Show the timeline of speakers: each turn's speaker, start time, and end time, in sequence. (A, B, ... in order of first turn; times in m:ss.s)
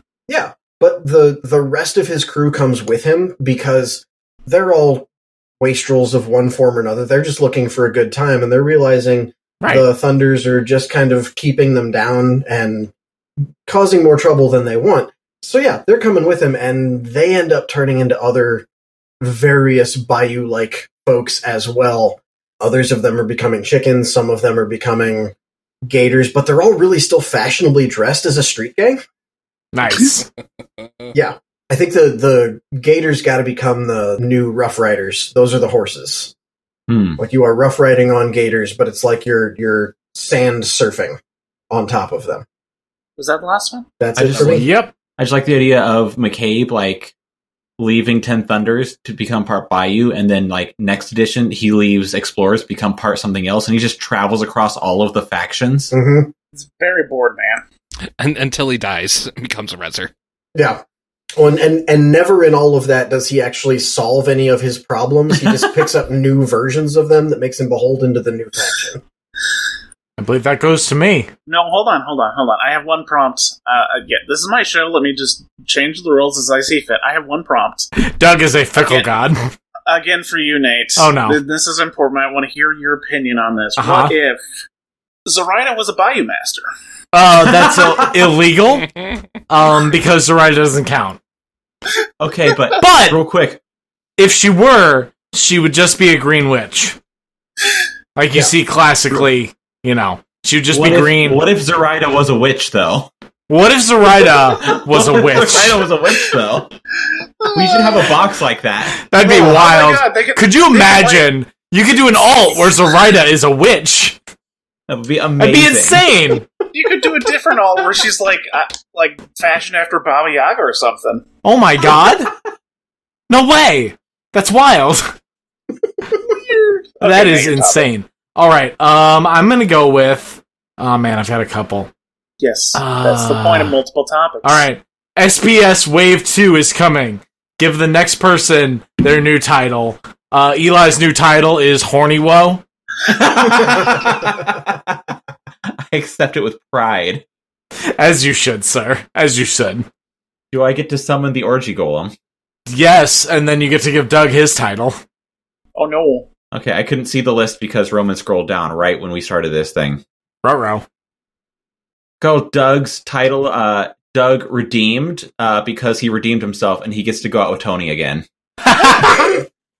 0:00.3-0:05.1 A
0:05.6-0:12.9 A
0:13.7-0:18.7 A
0:19.2-0:25.3 A
0:25.9-0:29.0 A
0:29.7-0:30.2 B
0:31.1-0:36.3 A
0:36.9-0:37.2 C
0:37.2-0:41.2 A
0:41.7-0:42.4 A
0:43.2-0:43.9 D
0:44.0-0:44.7 A
0:44.2-0:47.1 C
0:44.3-0:44.9 B
0:47.8-0:55.9 C
0:55.9-0:56.3 A
0:56.6-0:57.6 D
0:58.2-1:00.1 E
1:00.6-1:00.8 A
1:01.4-1:09.0 A
1:10.2-1:11.3 B
1:11.5-1:17.9 D
1:18.0-1:19.5 B
1:18.8-1:19.1 D
1:19.9-1:24.4 D
1:21.0-1:21.4 B
1:23.8-1:24.1 B
1:25.3-1:26.7 D
1:27.1-1:28.9 B
1:27.5-1:28.1 C
1:29.5-1:31.2 B
1:32.2-1:33.6 C
1:32.8-1:33.2 B
1:34.2-1:37.0 B
1:38.2-1:41.4 B
1:40.7-1:43.1 C
1:43.5-1:45.9 B
1:44.5-1:46.7 C
1:47.4-1:48.1 D
1:47.5-1:49.0 C
1:49.0-1:54.2 B
1:49.2-1:51.3 D
1:54.9-1:56.1 C
1:55.4-1:56.6 B
1:56.7-2:01.2 D
2:01.4-2:02.3 B
2:03.3-2:05.1 B
2:06.2-2:07.9 D
2:07.0-2:11.9 B
2:12.4-2:14.6 D
2:12.8-2:13.7 B
2:14.4-2:22.6 B
2:23.1-2:24.8 C
2:25.9-2:27.2 C
2:28.0-2:29.9 B
2:30.5-2:32.1 C
2:32.7-2:35.0 B
2:35.8-2:36.3 D
2:36.5-2:40.0 C
2:40.4-2:40.8 B
2:42.2-2:48.2 C
2:48.6-2:49.4 B